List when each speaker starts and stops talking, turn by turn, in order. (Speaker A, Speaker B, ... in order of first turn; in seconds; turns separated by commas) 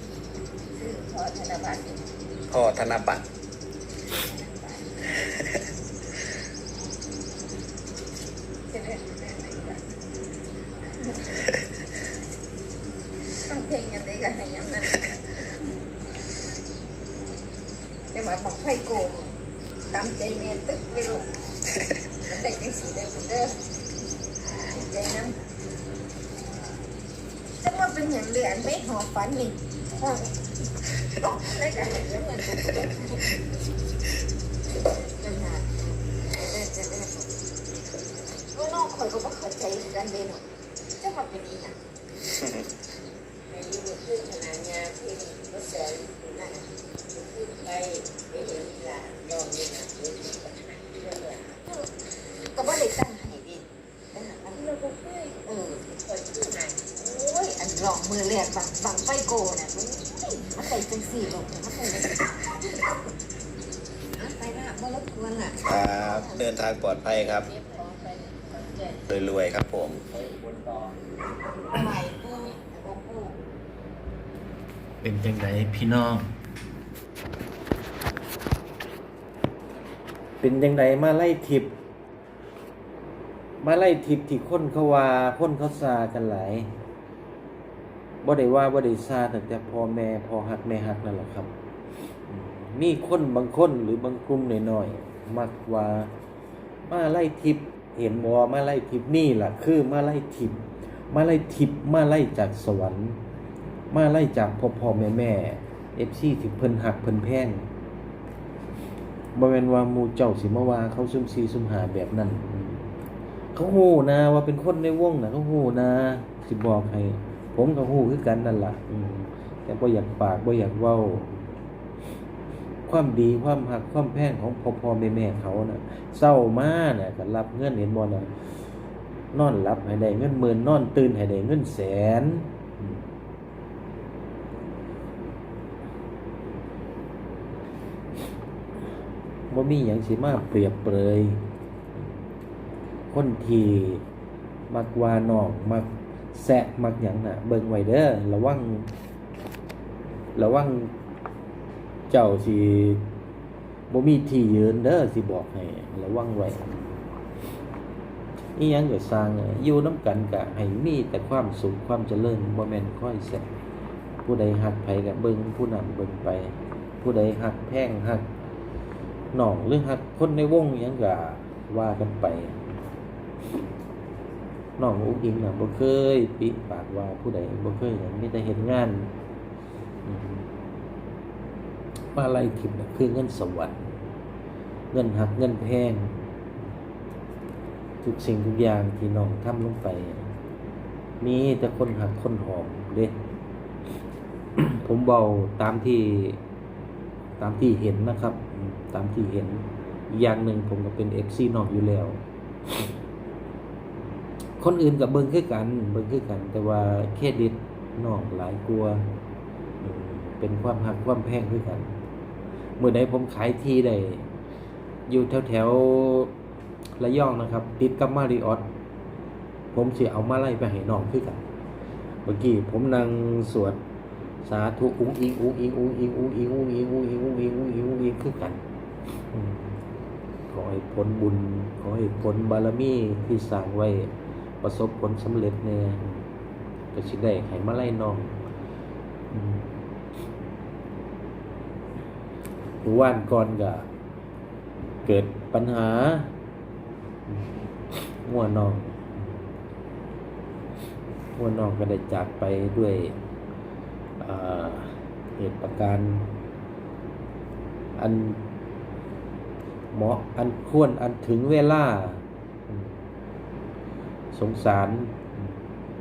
Speaker A: 0.7-2.1, Speaker B: 2.5-3.2, Speaker A: 4.1-5.0, Speaker A: 8.7-9.9, Speaker A: 11.0-11.3, Speaker A: 13.4-15.4, Speaker A: 18.1-19.3, Speaker A: 19.9-21.3, Speaker A: 22.1-23.6, Speaker A: 24.4-25.4, Speaker A: 27.6-30.5, Speaker A: 31.1-33.4, Speaker A: 35.2-37.3, Speaker A: 38.5-40.5, Speaker A: 41.0-41.8, Speaker C: 43.5-51.6, Speaker A: 51.6-51.9, Speaker A: 52.5-54.6, Speaker C: 54.5-56.9, Speaker A: 55.5-55.9, Speaker A: 56.9-62.9, Speaker A: 64.2-66.4, Speaker B: 65.7-67.5, Speaker A: 67.6-69.0, Speaker C: 67.8-68.9, Speaker B: 69.0-70.0, Speaker A: 71.7-73.4, Speaker D: 75.0-76.3, Speaker D: 80.4-81.7, Speaker D: 83.6-86.7, Speaker D: 88.2-91.5, Speaker D: 92.3-96.1, Speaker D: 96.8-103.2, Speaker D: 103.9-107.7, Speaker D: 109.3-112.9, Speaker D: 113.5-121.6, Speaker D: 122.9-128.3, Speaker D: 129.3-133.0, Speaker D: 139.5-141.4, Speaker D: 143.1-144.0, Speaker D: 144.7-148.9, Speaker D: 150.3-150.9, Speaker D: 152.1-153.0, Speaker D: 153.9-157.0, Speaker D: 158.6-163.5, Speaker D: 164.2-168.3, Speaker D: 169.3-172.7, Speaker D: 174.8-179.1, Speaker D: 180.1-180.4, Speaker D: 182.1-183.9, Speaker D: 184.9-186.3, Speaker D: 188.0-190.3, Speaker D: 191.2-193.2, Speaker D: 194.6-196.4, Speaker D: 197.4-202.9, Speaker D: 204.6-209.1, Speaker D: 209.8-212.0, Speaker D: 212.8-214.3, Speaker D: 215.1-216.3, Speaker D: 217.0-218.7, Speaker D: 219.7-221.4, Speaker D: 222.2-223.8, Speaker D: 224.4-228.6, Speaker D: 229.1-229.7, Speaker D: 230.5-236.2, Speaker D: 236.9-238.4, Speaker D: 239.3-239.7, Speaker D: 242.8-243.9, Speaker D: 245.0-246.3, Speaker D: 247.3-249.5, Speaker D: 251.3-253.2, Speaker D: 254.2-256.3, Speaker D: 258.0-258.4, Speaker D: 259.9-263.0, Speaker D: 264.3-265.6